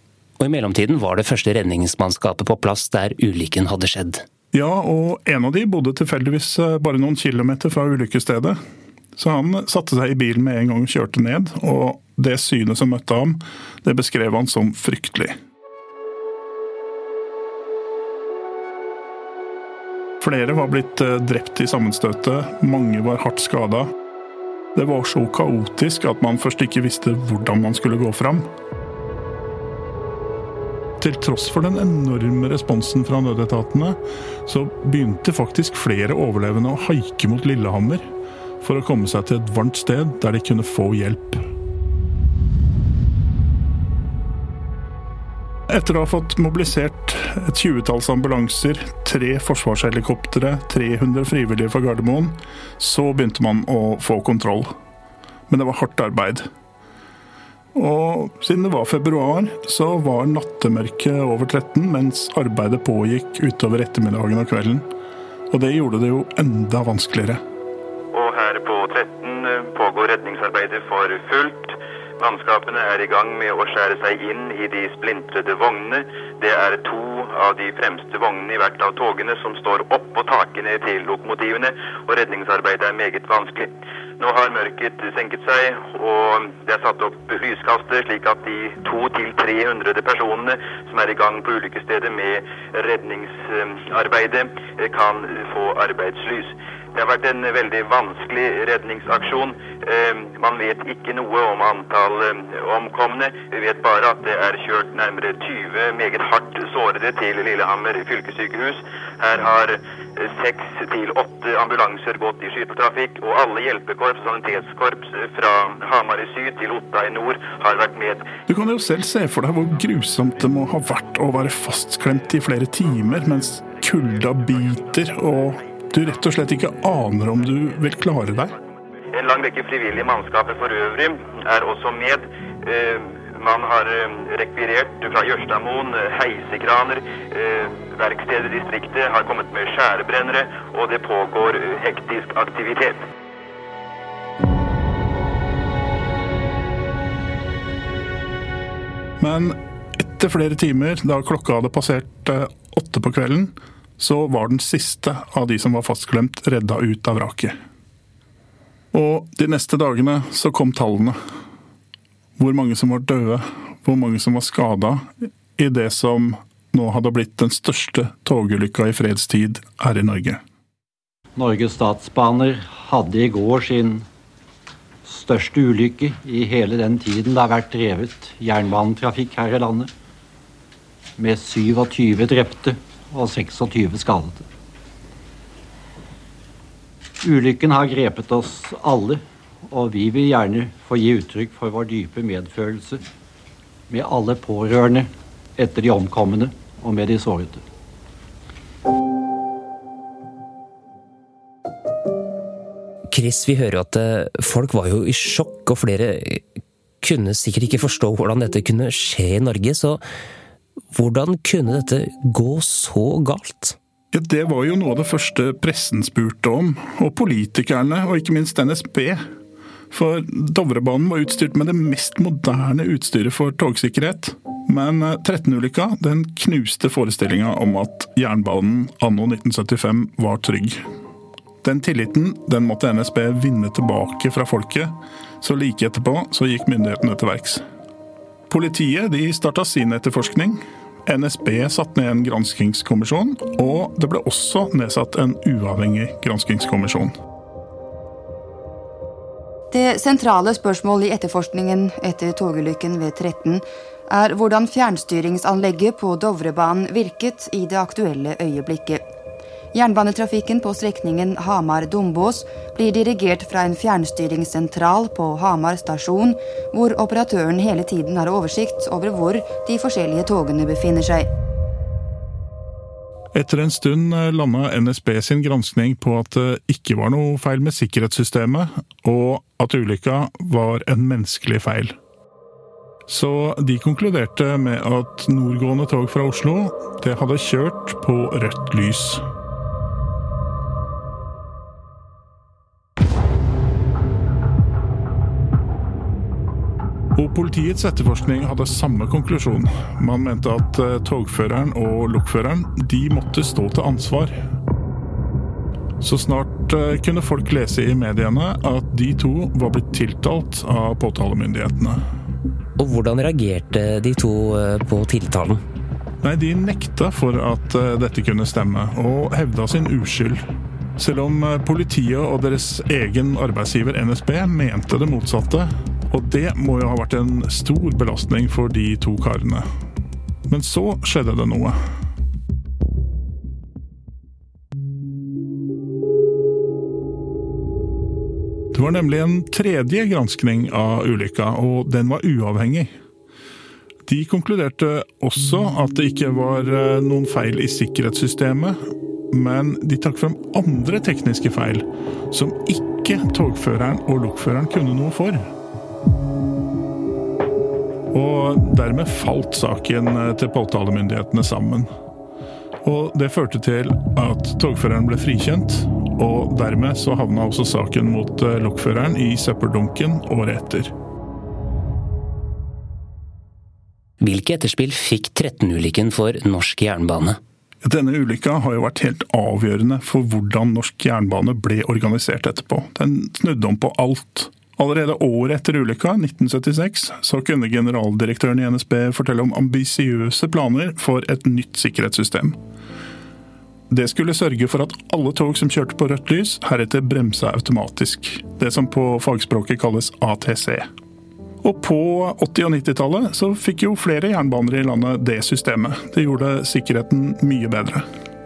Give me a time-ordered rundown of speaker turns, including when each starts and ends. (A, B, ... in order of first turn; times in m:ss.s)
0:00.4-0:04.2 A
0:04.5-0:08.6 B
0:09.2-0:15.3 B
0:20.2-0:23.9 B
0:24.7-0:28.4 B
0:31.0-0:38.0 B
0:38.6-0:41.4 B
0:45.7-0:54.7 B
0:55.5-0:56.5 B
0:57.7-1:04.8 B
1:05.5-1:07.4 B
1:08.1-1:58.2 C
1:58.5-2:08.5 B
2:09.1-2:23.0 C
2:29.2-2:37.5 B
2:38.9-2:41.2 B
2:42.4-2:50.4 B
2:51.4-2:54.0 D
2:55.0-2:59.9 D
3:01.2-3:04.4 D
3:07.2-3:13.0 D
3:13.9-3:17.6 D
3:23.1-3:26.4 A
3:27.0-3:30.0 A
3:30.9-3:33.8 A
3:34.1-3:39.2 B
3:39.9-3:50.8 B
3:51.6-3:57.6 B
3:58.5-4:07.1 B
4:09.7-4:19.0 E
4:19.7-4:31.3 E
4:33.3-4:41.9 B
4:43.1-4:49.2 B
4:57.1-5:04.3 B
5:06.0-5:12.0 B
5:12.8-5:15.6 A
5:16.2-5:20.4 B
5:21.0-5:29.6 B
5:30.5-5:31.8 B
5:38.7-5:42.9 B
5:44.1-5:48.8 B
5:49.3-5:55.4 B
5:58.1-6:01.9 B
6:02.8-6:10.9 B
6:14.2-6:17.4 A
6:17.8-6:32.6 B
6:33.9-6:40.9 B
6:41.6-6:48.0 B